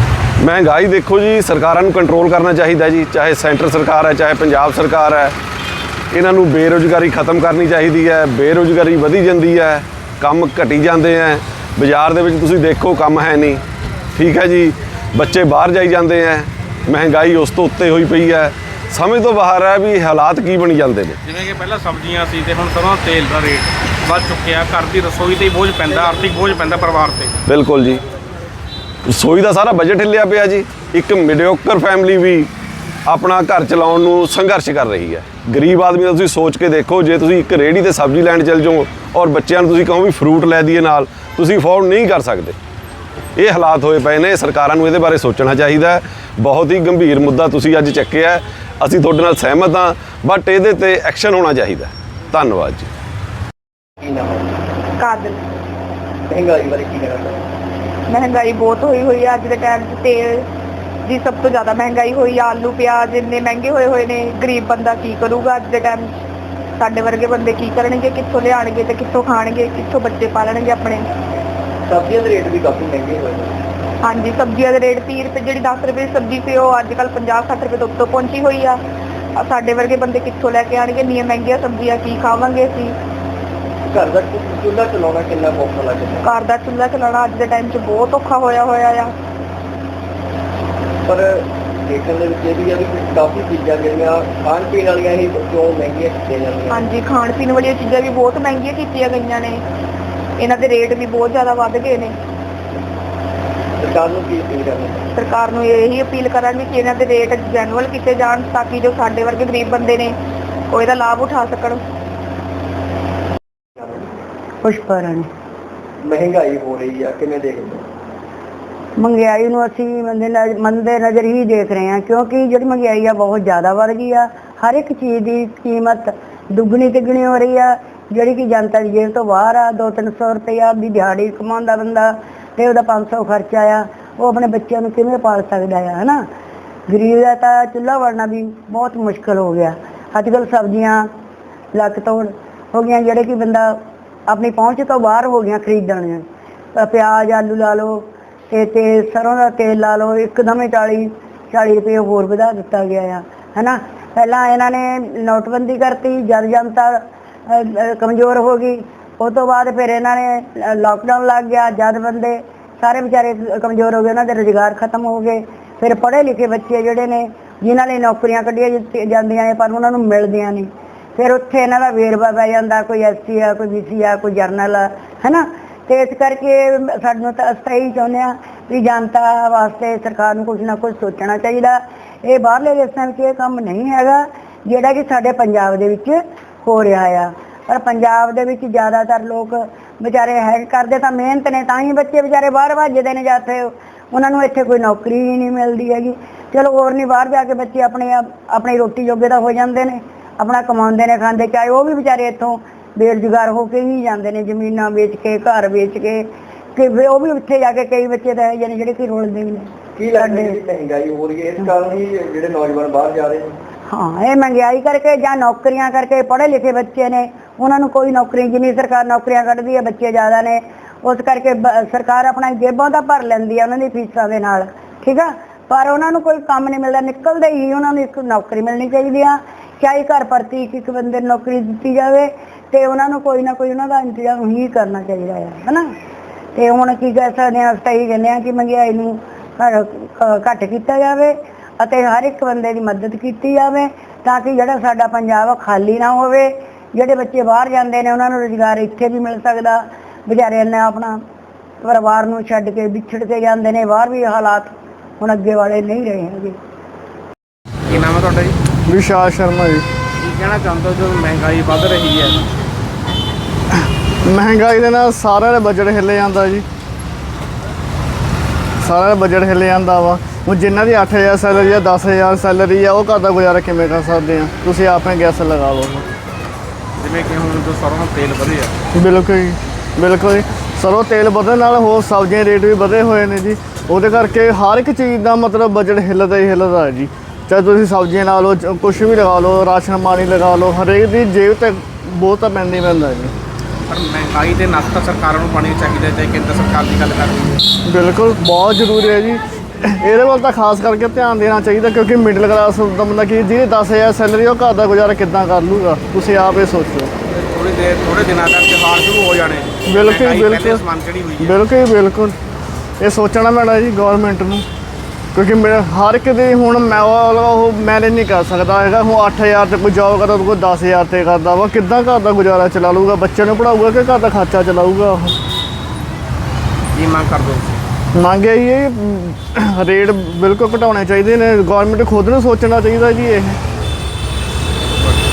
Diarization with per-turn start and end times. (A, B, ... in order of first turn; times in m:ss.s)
0:00.4-0:05.3 A
0:06.1-0:13.6 A
0:14.1-0:21.2 A
0:21.2-0:27.3 B
0:27.5-0:28.0 A
0:29.1-0:32.5 A
0:33.0-0:42.6 A
0:43.4-0:52.9 A
0:54.0-0:54.6 C
0:55.0-0:55.4 D
0:56.3-0:57.4 C
0:58.1-1:00.4 D
1:01.0-1:06.1 D
1:06.8-1:11.0 D
1:11.9-1:13.6 C
1:14.0-1:18.8 D
1:19.4-1:23.0 D
1:23.9-1:26.3 C
1:26.2-1:29.1 D
1:31.0-1:36.9 C
1:36.7-1:39.6 D
1:40.4-1:42.1 D
1:43.8-1:45.1 C
1:45.1-1:50.2 D
1:50.7-1:51.8 D
1:53.8-1:54.2 C
1:54.6-1:55.3 E
1:56.0-1:57.9 C
1:59.0-2:16.2 E
2:16.9-2:21.1 E
2:21.7-2:23.8 E
2:24.3-2:26.2 E
2:26.8-3:30.6 E
3:30.0-3:33.6 C
3:33.9-3:55.9 E
3:56.6-4:11.2 E
4:11.8-4:16.6 E
4:17.9-4:18.6 B
4:18.9-4:19.9 F
4:20.2-4:22.5 B
4:24.2-4:26.6 F
4:28.8-4:36.1 F
4:37.0-4:38.8 B
4:38.9-4:53.3 F
4:53.9-4:57.6 B
4:57.8-5:07.1 F
5:07.3-5:11.6 B
5:09.9-5:10.8 F
5:11.4-5:12.4 F
5:13.0-5:14.6 F
5:15.3-5:25.4 F
5:26.9-5:27.8 B
5:28.1-5:33.6 F